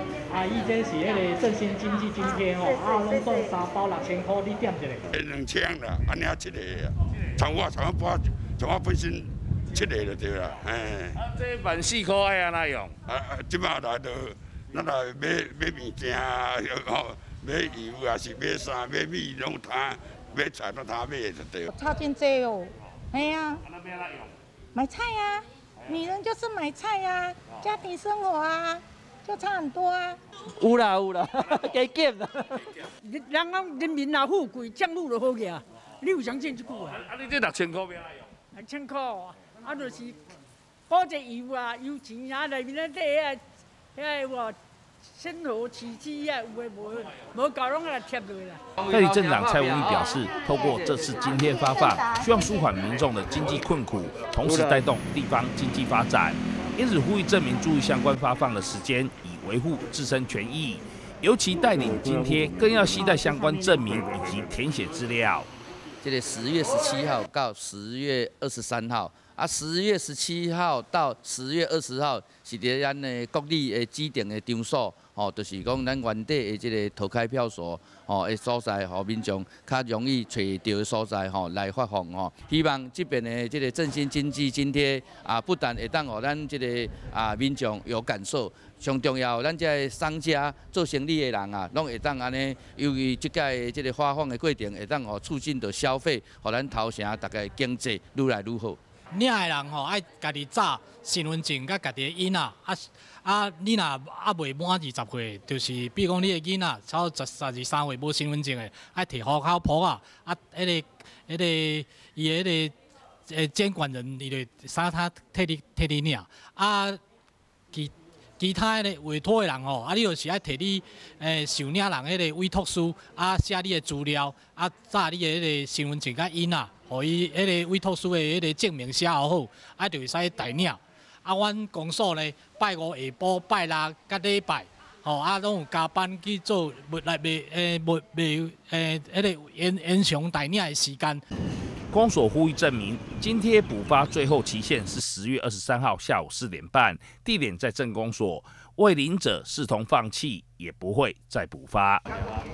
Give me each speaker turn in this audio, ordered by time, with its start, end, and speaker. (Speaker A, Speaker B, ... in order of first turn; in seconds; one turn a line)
Speaker A: 0.3-5.0
Speaker B: 5.1-11.2
Speaker C: 11.3-12.9
Speaker B: 13.1-21.7
Speaker D: 21.7-23.6
Speaker D: 24.7-30.2
Speaker E: 33.0-37.1
Speaker C: 37.1-37.9
Speaker E: 38.5-40.2
Speaker E: 40.9-43.4
Speaker E: 43.9-44.5
Speaker E: 45.1-48.6
Speaker C: 48.9-65.5
Speaker F: 66.0-98.8
Speaker A: 99.1-112.7
Speaker A: 113.3-117.0
Speaker A: 117.7-141.2
Speaker C: 141.9-152.0